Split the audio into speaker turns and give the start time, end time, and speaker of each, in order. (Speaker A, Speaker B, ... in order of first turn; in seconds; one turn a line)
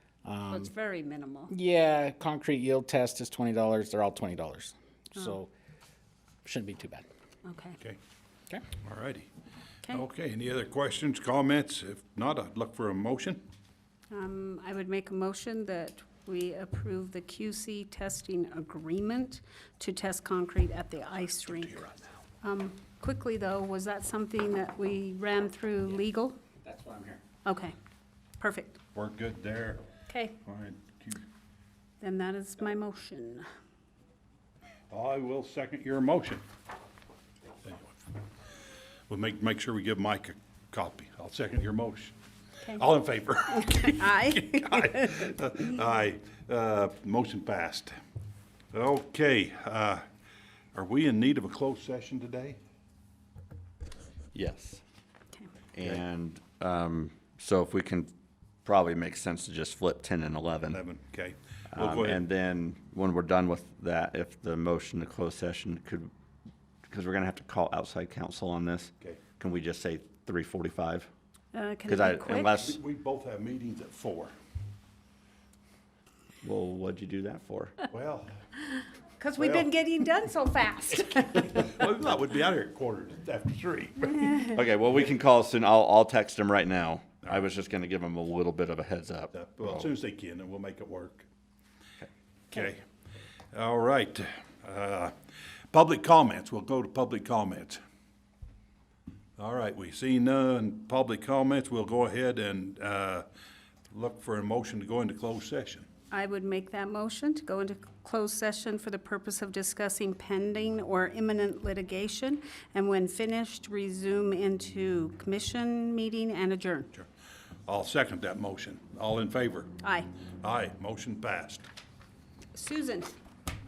Speaker A: 0.2-0.7
Speaker B: 0.5-1.5
Speaker A: 1.5-5.5
Speaker A: 6.4-7.0
Speaker B: 7.4-7.8
Speaker C: 8.8-9.3
Speaker C: 9.9-13.4
Speaker B: 14.1-21.8
Speaker C: 21.4-22.1
Speaker B: 22.4-26.4
Speaker A: 26.6-27.2
Speaker B: 27.4-27.8
Speaker B: 28.4-28.8
Speaker C: 28.9-29.8
Speaker B: 30.1-30.4
Speaker C: 30.4-31.2
Speaker B: 32.0-33.4
Speaker C: 34.9-36.4
Speaker C: 37.6-38.0
Speaker C: 39.1-42.1
Speaker C: 42.7-48.0
Speaker B: 43.7-45.2
Speaker C: 48.7-50.0
Speaker C: 50.7-52.6
Speaker D: 54.3-54.8
Speaker D: 55.7-58.1
Speaker D: 58.6-60.8
Speaker C: 60.7-62.2
Speaker D: 61.7-66.1
Speaker D: 66.9-71.1
Speaker B: 71.5-72.5
Speaker D: 71.9-72.8
Speaker C: 72.6-74.3
Speaker D: 76.4-77.7
Speaker C: 77.9-78.4
Speaker B: 79.2-81.6
Speaker C: 79.4-79.7
Speaker C: 81.4-84.5
Speaker D: 84.5-89.9
Speaker C: 89.3-91.3
Speaker C: 92.5-92.8
Speaker C: 93.5-95.1
Speaker C: 95.7-97.8
Speaker C: 99.4-103.2
Speaker C: 103.9-105.9
Speaker B: 106.1-116.9
Speaker C: 117.7-119.7
Speaker B: 119.8-120.1
Speaker C: 120.4-121.7
Speaker B: 122.5-123.2